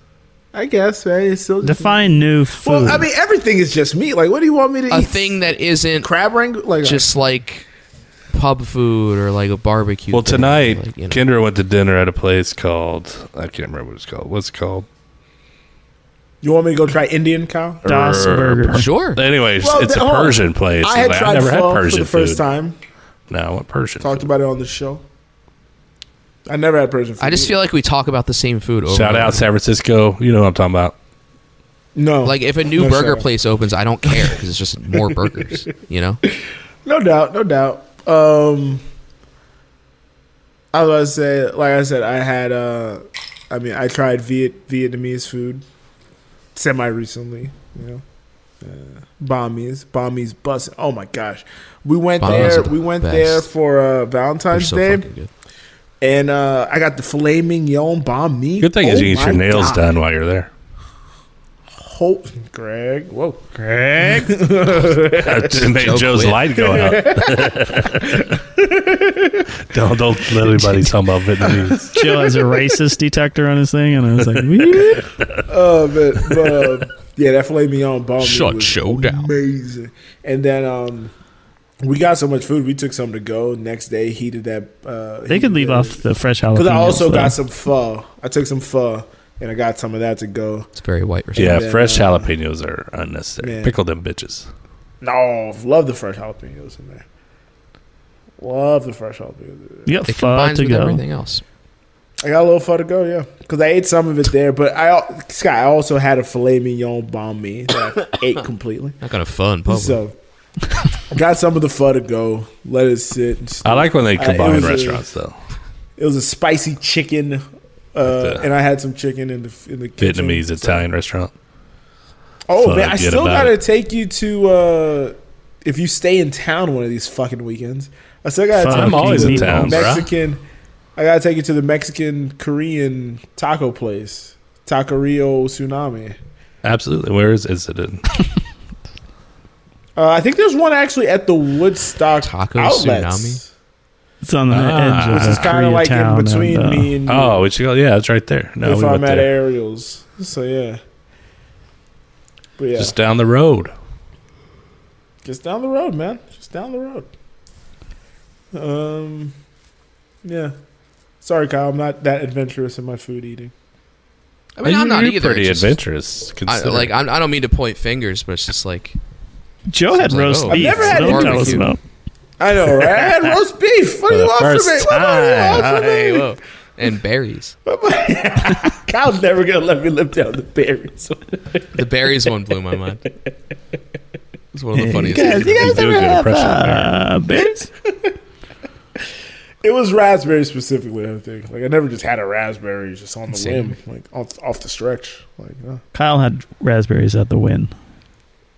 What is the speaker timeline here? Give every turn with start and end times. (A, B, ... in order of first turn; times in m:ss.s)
0:00.5-0:05.4 A
0:01.6-0:03.0 B
0:04.9-0:06.1 C
0:06.0-0:07.1 A
0:06.8-0:07.6 C
0:08.3-0:11.2 C
0:10.1-0:14.9 D
0:16.4-0:17.8 A
0:17.8-0:22.4 D
0:17.8-0:18.9 B
0:18.7-0:19.2 C
0:19.6-0:22.7 A
0:23.3-0:24.3 D
0:24.0-0:25.0 A
0:26.5-0:27.6 A
0:27.2-0:29.4 C
0:28.9-0:30.9 D
0:31.9-0:33.2 A
0:32.2-0:36.2 C
0:36.8-0:38.8 A
0:40.7-0:45.6 A
0:46.5-0:48.0 A
0:48.6-0:55.0 A
0:52.2-0:53.5 C
0:52.2-0:52.6 D
0:54.5-0:55.3 C
0:56.0-0:59.9 A
0:58.6-1:00.5 D
1:01.8-1:05.7 A
1:03.6-1:04.3 D
1:05.0-1:08.3 D
1:05.6-1:06.4 C
1:06.6-1:09.5 A
1:09.6-1:12.0 D
1:11.9-1:15.0 B
1:14.2-1:15.4 D
1:15.5-1:21.1 A
1:18.2-1:19.3 C
1:21.8-1:26.0 A
1:25.3-1:27.4 B
1:26.5-1:30.7 A
1:30.8-1:31.6 C
1:31.3-1:32.3 A
1:31.4-1:34.5 D
1:33.4-1:33.7 A
1:35.0-1:37.0 A
1:38.4-1:39.9 A
1:39.8-1:41.0 B
1:40.1-1:41.4 C
1:42.2-1:49.0 A
1:49.0-1:50.0 C
1:49.7-1:50.1 A
1:51.1-1:55.0 A
1:53.6-1:55.4 D
1:56.0-2:00.9 A
1:58.0-1:58.4 D
2:00.0-2:01.3 D
2:02.5-2:10.4 A
2:02.6-2:03.6 D
2:08.6-2:10.0 B
2:08.7-2:10.1 D
2:11.0-2:16.2 A
2:16.6-2:18.0 D
2:20.0-2:23.5 A
2:22.2-2:23.4 C
2:24.2-2:26.9 B
2:24.5-2:25.6 D
2:25.1-2:27.4 A
2:27.1-2:29.3 D
2:28.6-2:30.8 A
2:32.6-2:32.9 A
2:32.8-2:33.7 D
2:35.2-2:37.1 A
2:38.5-2:39.3 A
2:40.2-2:40.5 A
2:41.2-2:43.5 A
2:44.6-2:45.8 C
2:44.6-2:46.9 D
2:46.5-2:49.0 C
2:49.7-2:51.8 B
2:49.9-2:51.7 C
2:50.5-2:51.7 A
2:52.4-2:56.2 A
2:54.1-2:55.7 D
2:55.5-2:57.5 C
2:57.6-3:01.8 A
3:01.7-3:03.0 C
3:04.5-3:05.8 C
3:04.8-3:07.7 B
3:05.3-3:07.0 D
3:07.8-3:08.1 A
3:09.6-3:15.8 A
3:13.3-3:13.7 C
3:15.9-3:17.7 B